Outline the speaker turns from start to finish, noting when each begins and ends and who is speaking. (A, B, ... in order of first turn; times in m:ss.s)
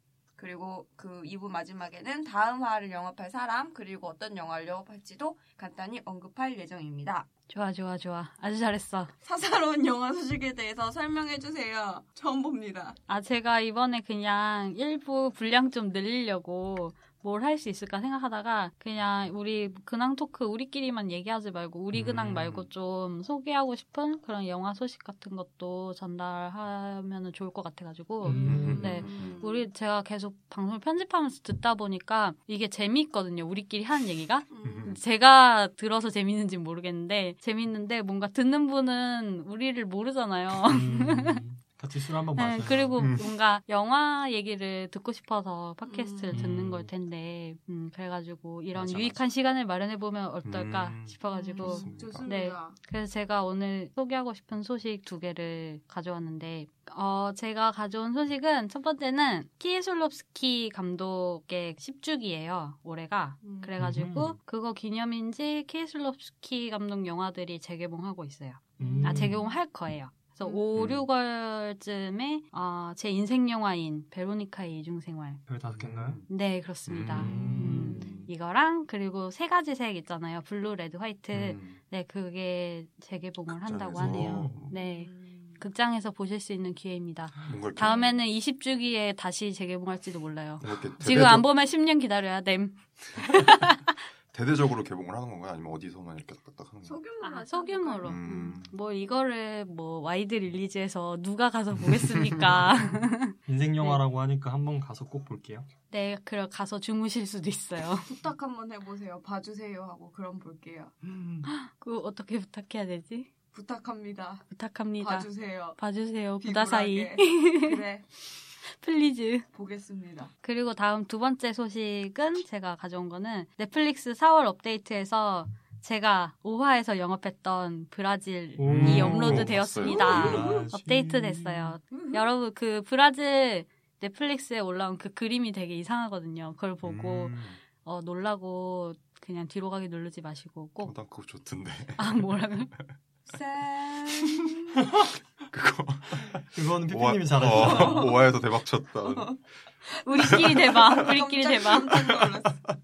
0:00.4-0:07.3 A
0:07.5-0:09.1 B
0:09.2-0:13.0 A
0:13.1-0:41.4 B
0:21.9-0:22.7 C
0:28.2-0:29.1 D
0:28.4-0:29.7 A
0:28.4-0:29.3 C
0:34.5-0:35.0 A
0:34.6-0:35.0 C
0:40.6-0:42.9 D
0:42.4-1:15.4 B
0:42.9-0:43.3 C
0:45.8-0:46.4 A
0:46.3-0:46.9 D
0:48.7-0:49.2 C
0:50.4-0:52.3 C
0:51.3-0:52.8 A
1:03.4-1:03.8 A
1:03.8-1:04.4 D
1:08.8-1:09.4 A
1:08.8-1:09.4 D
1:10.4-1:10.7 A
1:10.7-1:11.0 C
1:15.5-1:16.2 D
1:15.8-1:16.3 C
1:16.3-1:34.0 B
1:16.8-1:18.1 C
1:17.1-1:18.2 D
1:21.3-1:21.8 C
1:23.5-1:24.8 C
1:24.0-1:24.6 D
1:24.7-1:25.6 A
1:27.4-1:28.0 C
1:27.8-1:28.2 A
1:30.6-1:31.5 C
1:34.3-1:37.0 C
1:36.8-1:38.2 A
1:37.2-1:44.0 B
1:38.0-1:38.7 C
1:41.8-1:42.7 C
1:43.4-1:45.7 D
1:45.9-1:48.1 B
1:48.0-1:50.9 A
1:51.1-1:51.4 C
1:51.4-1:53.3 B
1:53.5-1:54.4 A
1:54.5-1:57.8 B
1:55.0-1:55.8 A
1:56.4-1:58.0 A
1:58.6-1:59.4 B
1:59.5-2:00.3 A
2:00.4-2:21.0 B
2:08.6-2:11.7 D
2:08.6-2:10.5 C
2:09.8-2:10.7 A
2:11.9-2:12.2 A
2:16.8-2:17.6 C
2:20.8-2:22.8 C
2:22.0-2:22.7 B
2:23.3-2:24.8 A
2:25.5-2:29.4 C
2:26.5-2:28.2 D
2:27.4-2:28.4 A
2:29.0-2:29.4 A
2:29.9-2:32.6 A
2:30.0-2:32.0 B
2:30.2-2:31.0 C
2:31.7-2:32.7 C